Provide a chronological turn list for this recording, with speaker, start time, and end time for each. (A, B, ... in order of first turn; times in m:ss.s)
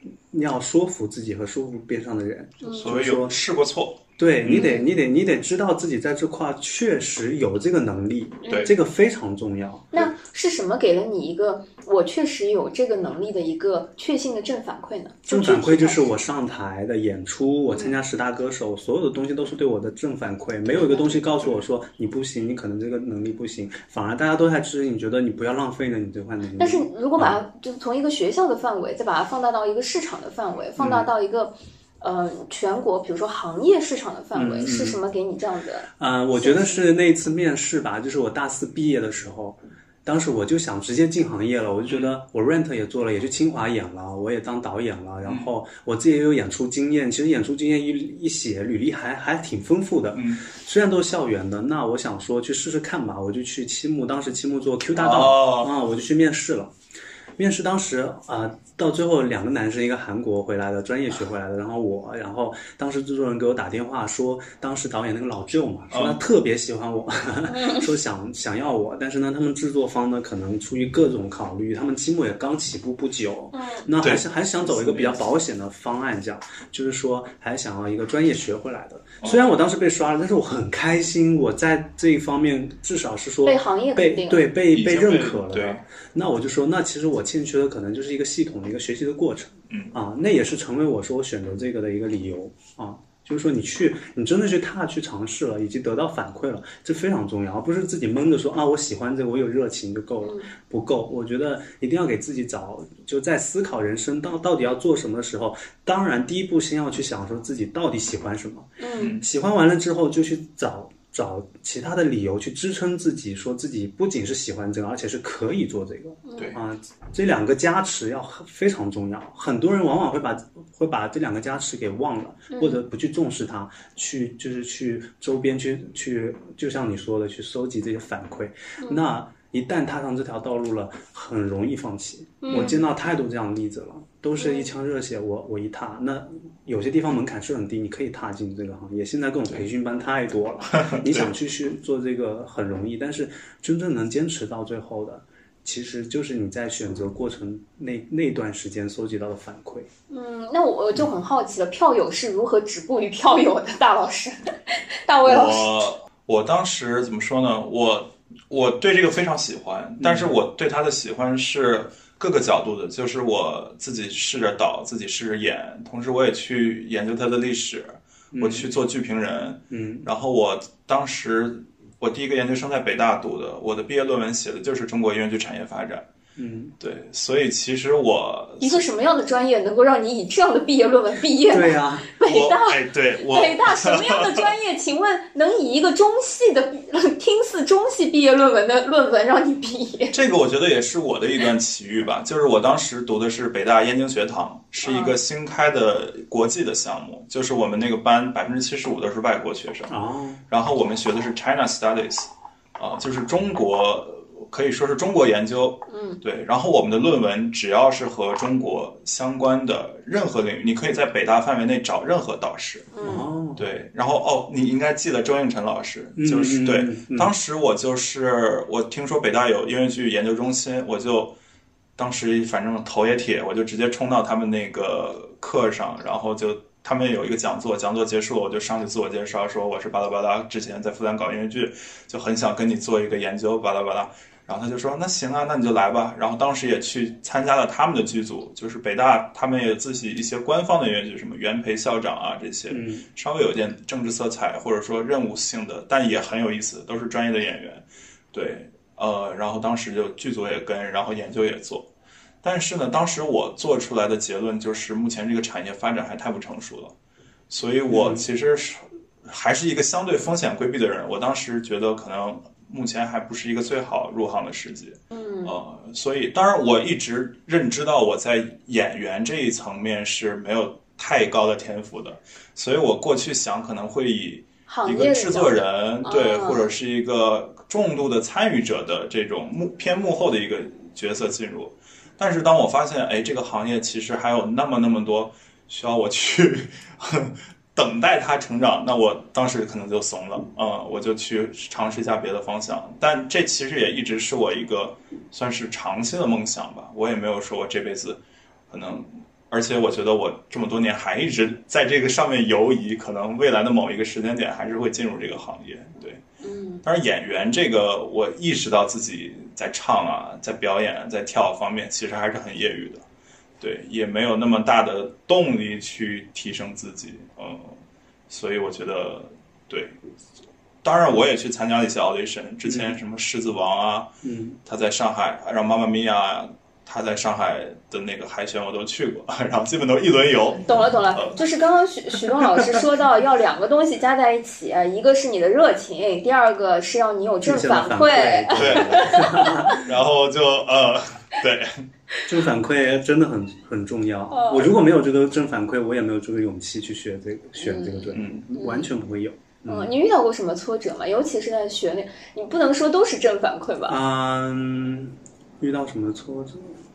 0:00.3-0:03.4 A
0:02.6-0:02.9 B
0:02.8-0:04.7 C
0:04.2-0:10.1 A
0:04.5-0:04.9 B
0:08.4-0:08.7 B
0:09.9-0:16.1 B
0:15.3-0:27.4 A
0:17.7-0:18.0 B
0:26.6-0:36.8 B
0:30.8-0:31.1 A
0:34.3-0:35.0 A
0:36.0-0:56.7 A
0:41.9-0:42.2 C
0:50.2-0:50.4 C
0:55.0-0:55.7 C
0:57.4-2:29.9 A
1:05.9-1:06.2 C
1:07.5-1:07.9 B
1:13.5-1:13.9 B
1:14.0-1:15.2 C
1:23.4-1:24.5 B
1:24.7-1:25.8 C
1:40.2-1:40.5 B
1:48.8-1:49.2 B
1:49.0-1:49.2 C
1:56.3-1:56.5 B
2:02.5-2:02.8 B
2:12.4-2:12.8 B
2:14.4-2:14.7 B
2:20.7-2:21.3 C
2:30.1-2:35.9 B
2:35.2-2:56.0 C
2:40.0-2:40.4 A
2:48.3-2:48.7 A
2:49.7-2:50.1 A
2:56.4-2:56.7 A
2:56.8-2:58.8 C
2:58.6-3:10.2 B
3:01.5-3:02.1 A
3:02.2-3:04.5 C
3:10.1-3:19.9 C
3:14.8-3:15.2 B
3:19.9-3:20.4 A
3:20.5-3:32.9 C
3:25.9-3:26.2 B
3:32.9-3:33.3 B
3:33.0-3:33.6 A
3:33.6-3:41.4 C
3:36.2-3:37.3 A
3:42.0-4:11.9 C
4:02.7-4:03.1 A
4:12.4-4:16.9 C
4:17.5-5:06.2 C
4:17.9-4:18.3 A
4:25.1-4:25.6 B
4:34.7-4:36.7 B
5:06.4-5:06.8 B
5:06.8-5:13.0 C
5:13.6-5:20.0 C
5:20.8-5:24.1 C
5:22.6-5:23.0 A
5:24.2-5:24.6 A
5:24.6-5:31.4 C
5:30.6-5:39.8 B
5:37.4-5:39.8 A
5:38.6-5:41.8 C
5:42.3-5:49.9 A
5:44.3-5:44.7 B
5:47.6-5:48.9 B
5:48.1-5:48.4 C
5:49.7-5:54.0 B
5:53.9-5:56.8 A